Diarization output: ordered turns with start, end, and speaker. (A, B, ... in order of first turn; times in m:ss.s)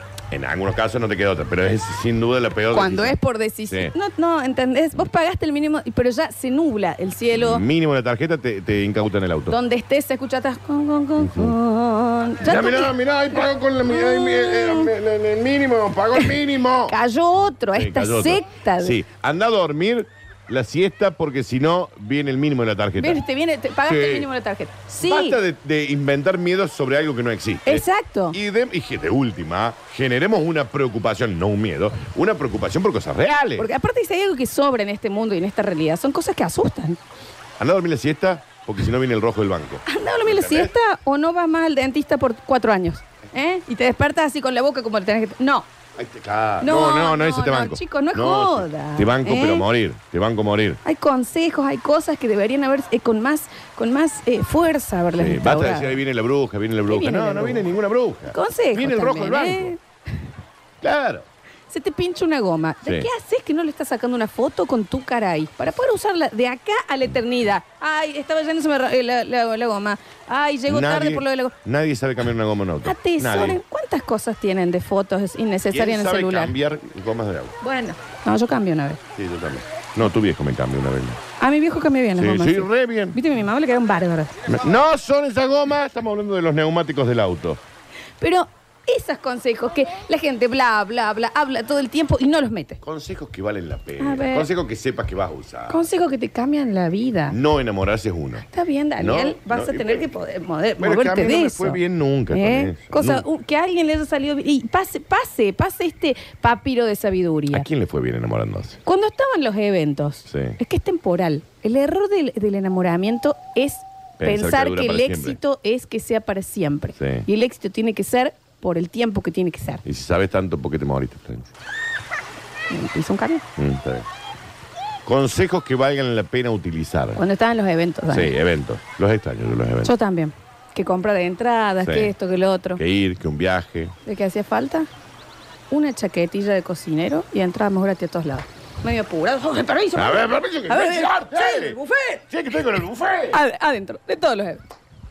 0:00.3-0:03.2 A
0:02.7-0:07.6 B
0:07.3-0:09.6 A
0:09.5-0:12.9 B
0:11.2-0:11.5 A
0:12.4-0:17.0 A
0:13.9-0:14.9 B
0:16.9-0:19.0 B
0:17.8-0:23.2 A
0:23.0-0:25.4 B
0:23.9-0:24.3 A
0:25.0-0:33.7 A
0:27.7-0:28.4 B
0:33.6-0:37.0 B
0:37.6-0:40.7 A
0:39.9-0:45.7 B
0:46.0-0:50.8 A
0:46.6-0:49.6 B
0:50.8-0:56.0 B
0:55.2-0:59.7 A
0:56.9-0:57.6 B
0:58.3-0:59.8 B
1:00.8-1:01.2 A
1:01.7-1:11.5 B
1:10.7-1:13.6 A
1:12.9-1:16.5 B
1:15.7-1:17.6 A
1:17.6-1:19.0 B
1:19.2-1:21.2 A
1:21.4-1:24.3 B
1:22.2-1:23.2 A
1:24.5-1:27.6 A
1:28.2-1:32.8 B
1:32.8-1:35.8 A
1:34.0-1:34.5 B
1:35.7-1:37.4 B
1:37.3-1:38.5 A
1:38.5-1:41.8 B
1:39.0-1:40.0 A
1:40.8-1:43.2 A
1:42.3-1:47.6 B
1:47.5-1:48.8 A
1:48.9-1:59.8 B
1:50.3-1:50.6 A
1:54.2-1:55.4 A
1:57.0-1:57.2 A
1:59.8-2:01.5 A
2:02.7-2:03.4 B
2:03.6-2:04.1 A
2:05.1-2:07.2 A
2:07.2-2:08.3 B
2:08.1-2:09.9 A
2:09.8-2:12.8 B
2:11.8-2:12.1 A
2:12.8-2:13.9 A
2:14.0-2:14.9 B
2:15.7-2:22.2 B
2:20.0-2:21.8 A
2:22.3-2:23.4 A
2:23.3-2:24.6 B